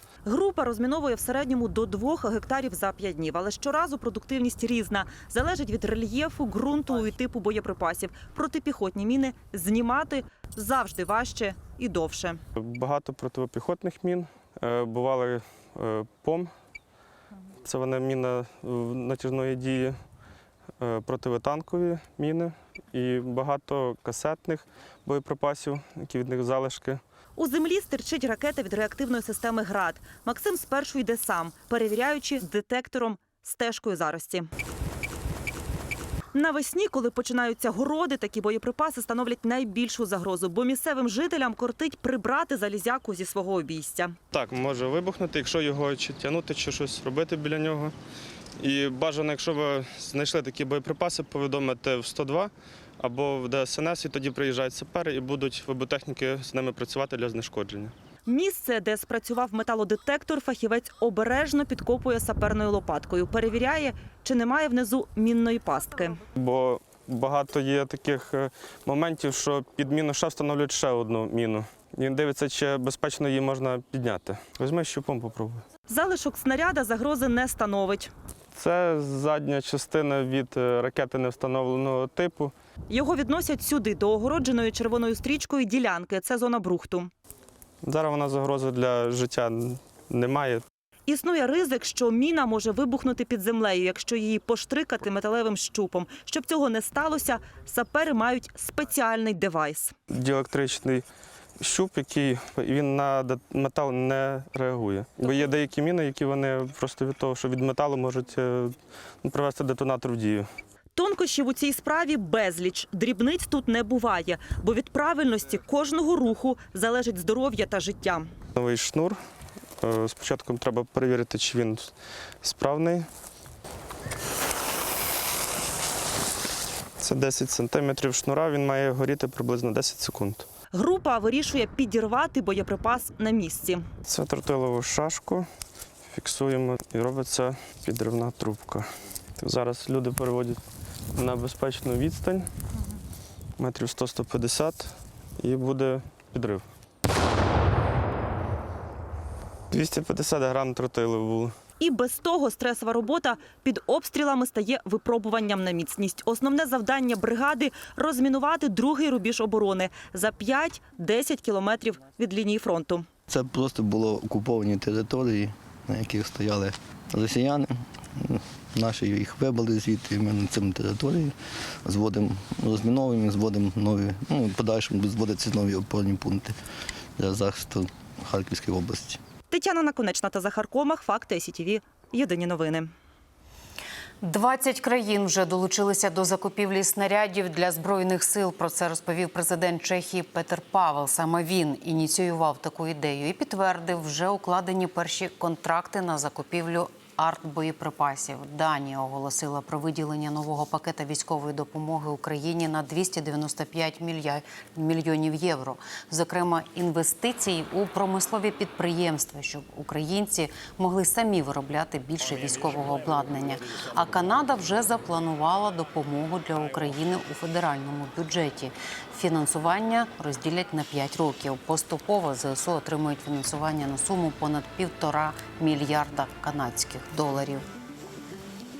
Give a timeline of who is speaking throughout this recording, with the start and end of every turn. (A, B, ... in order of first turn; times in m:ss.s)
0:00.2-0:12.4 A
0:12.6-0:16.5 B
0:17.6-0:20.0 B
0:20.8-0:27.0 B
0:27.4-0:34.5 A
0:36.3-0:44.2 A
0:44.3-0:47.9 B
0:48.6-0:57.9 B
0:58.3-1:06.2 A
1:06.4-1:15.6 B
1:15.9-1:18.1 A
1:18.5-1:22.5 B
1:22.9-1:27.1 A
1:27.8-1:30.6 B
1:31.1-1:39.9 A
1:40.1-1:41.0 B
1:41.6-1:50.5 B
1:45.2-1:45.5 A
1:51.0-1:58.3 A
1:58.6-1:59.2 B
1:59.8-2:03.1 B
2:07.0-2:10.4 B
2:10.7-2:13.8 A
2:14.0-2:15.5 B
2:16.1-2:20.6 B
2:21.2-2:22.4 B
2:23.6-2:26.6 B
2:29.7-2:31.5 B
2:31.8-2:43.1 A
2:43.3-2:56.6 C
2:57.2-2:59.2 C
2:59.5-3:02.9 A
3:04.2-3:47.6 D